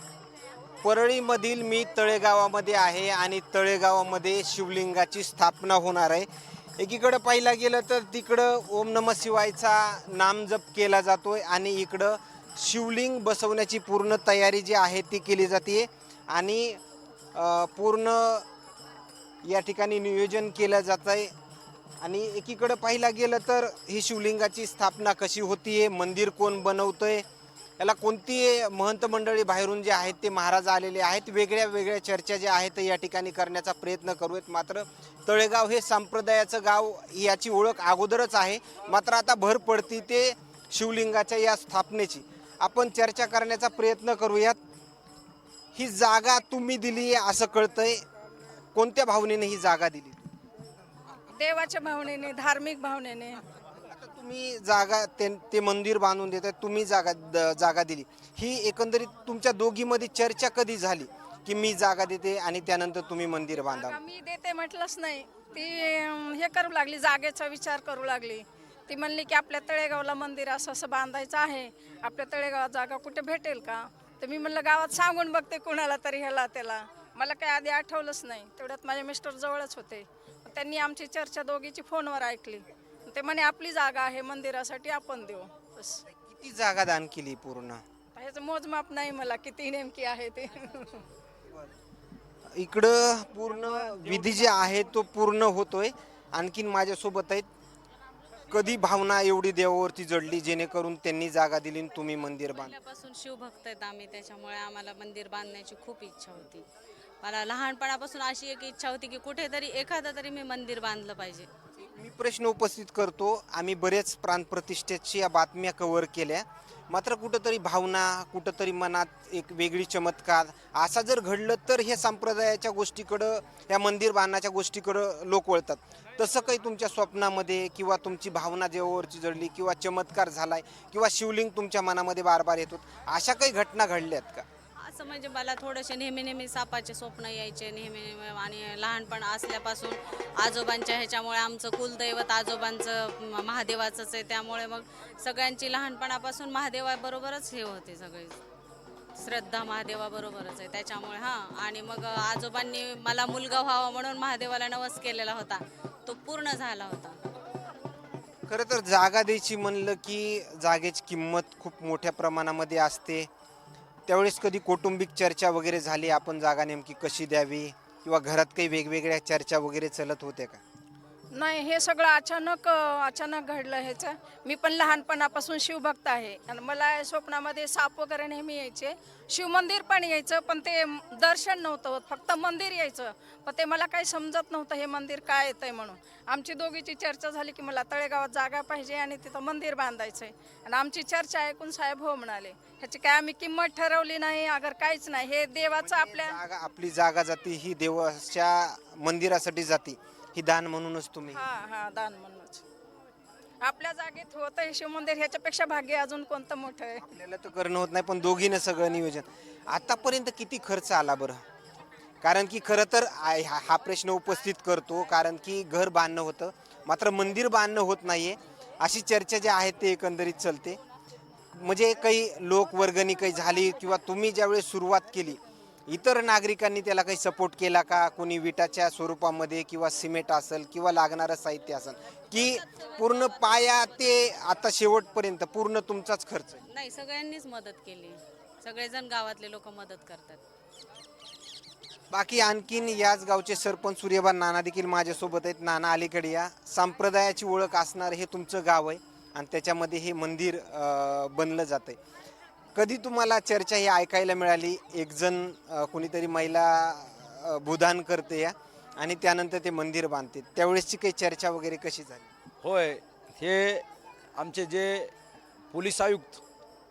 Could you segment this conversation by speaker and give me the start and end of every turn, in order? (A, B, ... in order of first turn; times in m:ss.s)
0:00.8-0:16.8 A
0:17.3-0:18.5 A
0:19.4-0:21.3 A
0:22.0-0:27.2 A
0:27.8-0:44.6 A
0:45.7-0:48.0 A
0:48.7-0:50.3 A
0:51.4-0:53.4 B
0:53.7-1:04.0 A
1:03.7-1:26.0 B
1:26.0-1:27.8 A
1:28.1-1:31.0 B
1:32.5-1:37.5 A
1:33.7-1:34.6 C
1:38.5-1:42.7 A
1:42.5-1:46.6 D
1:47.2-1:51.5 D
1:51.8-2:14.4 A
2:14.8-2:28.4 D
2:29.2-2:37.2 D
2:38.5-2:43.3 A
2:44.1-2:50.6 A
2:51.3-3:16.3 B
3:15.8-3:21.4 A
3:21.3-3:22.6 B
3:23.6-3:27.0 B
3:27.0-3:31.4 A
3:32.2-3:40.8 A
3:41.5-3:56.6 A
3:52.4-3:54.4 D
3:56.7-4:00.4 D
4:02.1-4:12.0 A
4:12.8-4:22.2 A
4:22.6-4:23.8 C
4:24.4-4:25.1 C
4:25.7-4:26.4 C